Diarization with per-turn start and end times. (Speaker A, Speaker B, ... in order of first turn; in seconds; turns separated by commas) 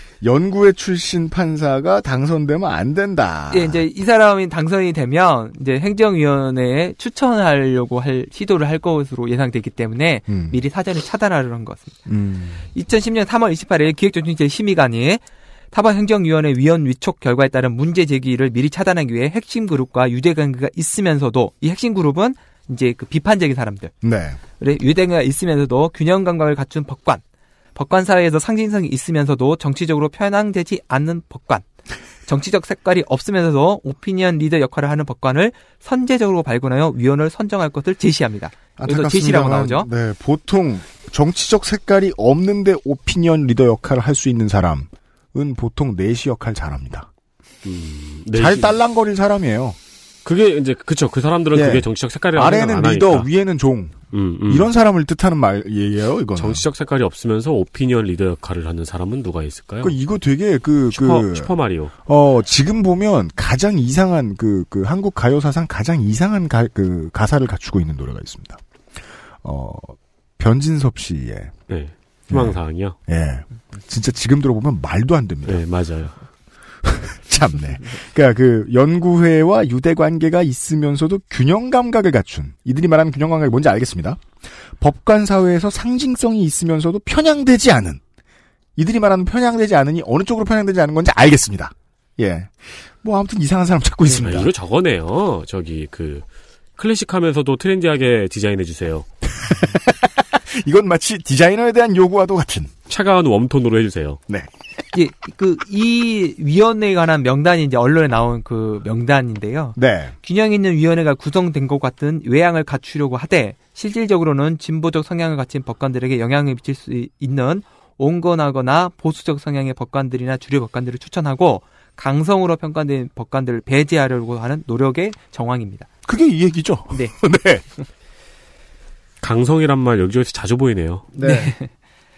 Speaker A: 0.2-3.8, Speaker B: 3.5-12.0, Speaker A: 10.3-10.6, Speaker A: 12.1-12.7, Speaker B: 12.7-23.9, Speaker A: 24.0-24.4, Speaker B: 24.6-27.2, Speaker B: 27.8-31.6, Speaker B: 32.2-39.9, Speaker A: 38.8-47.1, Speaker C: 47.6-48.8, Speaker A: 48.3-49.8, Speaker C: 50.2-53.3, Speaker A: 51.5-56.6, Speaker C: 54.1-54.7, Speaker C: 56.4-59.9, Speaker A: 59.8-61.5, Speaker C: 60.9-61.9, Speaker A: 62.0-68.6, Speaker A: 69.4-71.5, Speaker C: 71.7-73.0, Speaker A: 72.3-75.6, Speaker C: 75.5-76.1, Speaker A: 76.8-88.0, Speaker A: 88.8-94.5, Speaker C: 94.1-96.2, Speaker C: 96.8-99.0, Speaker A: 99.3-102.7, Speaker C: 102.9-104.2, Speaker B: 104.9-125.9, Speaker A: 109.8-110.1, Speaker A: 126.0-127.6, Speaker C: 129.2-131.0, Speaker A: 131.1-131.5, Speaker B: 131.2-131.7